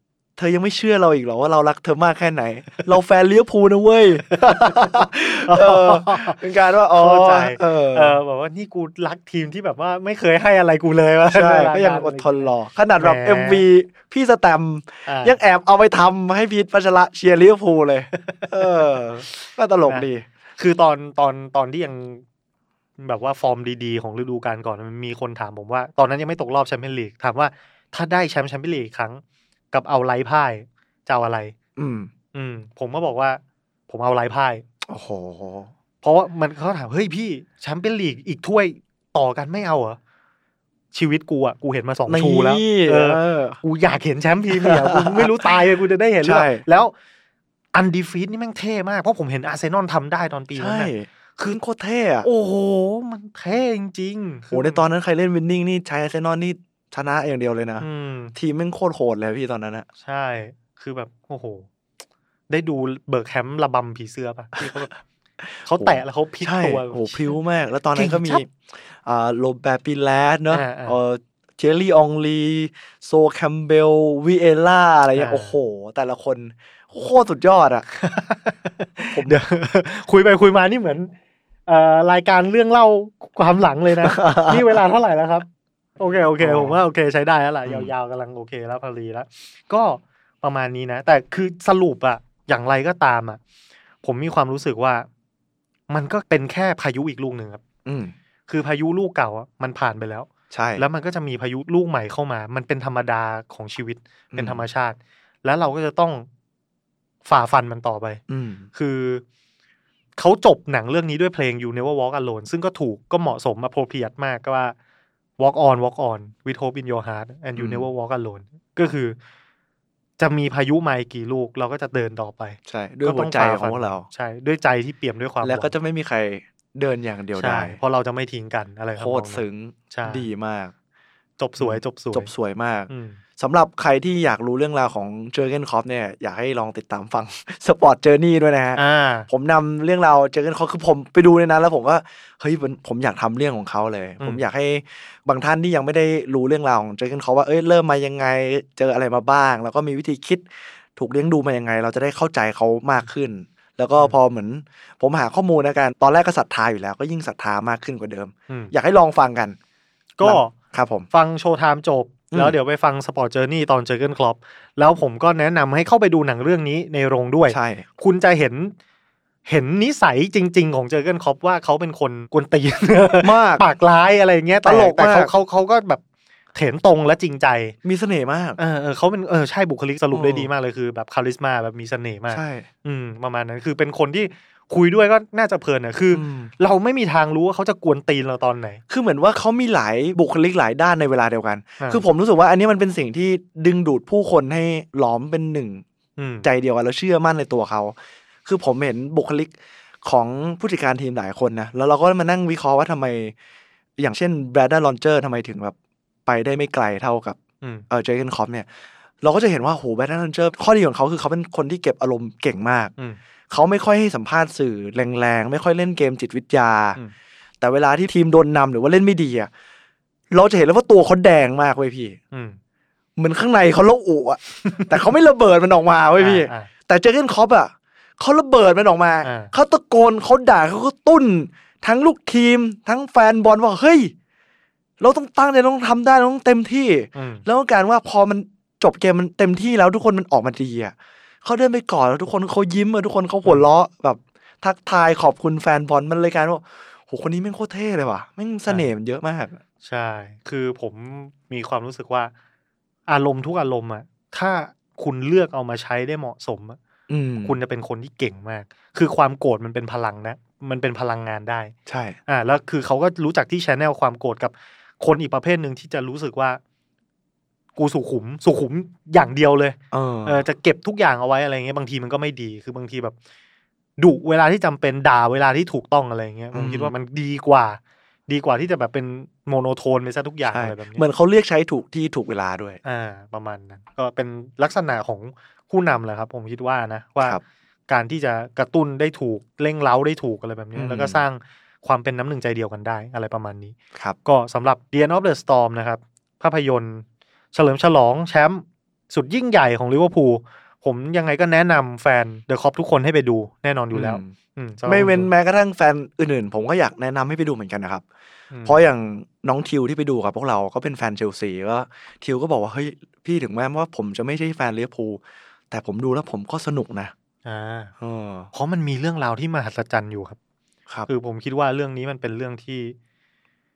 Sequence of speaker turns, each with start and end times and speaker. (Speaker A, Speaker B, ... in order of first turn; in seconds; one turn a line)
Speaker A: 0.4-8.2
Speaker B: 4.3-6.4
Speaker B: 6.9-13.6
Speaker A: 11.3-20.2
Speaker B: 15.1-15.4
Speaker B: 18.2-19.0
Speaker B: 20.6-22.2
Speaker B: 23.0-31.6
Speaker A: 31.8-32.1
Speaker B: 32.3-34.6
Speaker A: 34.9-35.7
Speaker B: 36.0-40.0
Speaker B: 40.9-46.9
Speaker A: 42.1-43.6
Speaker A: 44.6-45.6
Speaker A: 46.2-46.6
Speaker B: 47.7-51.6
Speaker A: 50.6-52.3
Speaker B: 52.2-54.8
Speaker A: 54.5-59.9
Speaker B: 57.8-58.4
Speaker B: 60.0-61.7
Speaker B: 62.5-65.0
Speaker B: 65.6-67.3
Speaker A: 65.8-77.9
Speaker B: 68.0-68.4
Speaker B: 70.5-71.0
Speaker B: 75.2-75.6
Speaker B: 78.0-81.1
Speaker A: 79.1-79.4
Speaker B: 81.7-85.5
Speaker A: 84.0-84.7
Speaker B: 86.0-93.4
Speaker A: 86.4-86.8
Speaker A: 87.7-87.9
Speaker B: 94.0-95.1
Speaker B: 95.9-97.6
Speaker A: 97.8-98.1
Speaker B: 98.5-106.3
Speaker A: 100.5-100.8
Speaker A: 104.3-104.6
Speaker B: 107.3-108.2
Speaker A: 108.3-108.7
Speaker B: 108.7-109.2
Speaker B: 110.2-114.8
Speaker B: 115.4-119.2
Speaker A: 117.6-117.9
Speaker B: 120.2-125.7
Speaker A: 122.7-124.1
Speaker A: 125.4-127.8
Speaker B: 127.4-130.3
Speaker A: 129.0-130.7
Speaker B: 131.4-132.3
Speaker A: 131.6-159.6
Speaker B: 132.9-133.2
Speaker B: 138.8-139.3
Speaker B: 160.2-160.6
Speaker A: 160.2-161.1
Speaker B: 161.1-168.8
Speaker A: 167.5-167.9
Speaker B: 169.5-176.0
Speaker A: 173.2-173.7
Speaker A: 174.6-175.3
Speaker B: 176.6-177.8
Speaker A: 177.8-178.6
Speaker B: 178.6-188.8
Speaker A: 180.1-180.5
Speaker A: 182.3-182.7
Speaker A: 186.1-186.5
Speaker A: 188.9-195.8
Speaker B: 196.2-196.5
Speaker A: 196.4-199.5
Speaker A: 200.1-203.3
Speaker A: 204.0-205.8
Speaker A: 206.3-207.4
Speaker A: 207.9-208.7
Speaker A: 209.2-212.9
Speaker A: 213.5-217.0
Speaker A: 217.6-219.5
Speaker A: 220.3-222.2
Speaker B: 222.3-222.6
Speaker A: 223.2-234.1
Speaker B: 224.7-224.9
Speaker B: 226.2-226.7
Speaker B: 229.2-229.5
Speaker A: 235.0-249.6
Speaker B: 237.2-237.4
Speaker B: 249.8-252.3
Speaker B: 253.1-256.8
Speaker A: 257.1-257.6
Speaker B: 257.4-261.7
Speaker A: 261.9-262.2
Speaker B: 262.3-266.6
Speaker B: 267.8-273.1
Speaker A: 269.9-270.4
Speaker B: 274.0-281.0
Speaker A: 276.5-276.9
Speaker A: 280.5-282.8
Speaker B: 282.8-305.3
Speaker A: 290.8-291.2
Speaker A: 303.9-304.3
Speaker A: 304.9-308.0
Speaker B: 308.5-308.8
Speaker A: 308.6-317.1
Speaker B: 317.4-317.9
Speaker A: 318.0-318.5
Speaker B: 318.5-320.4
Speaker B: 321.1-323.0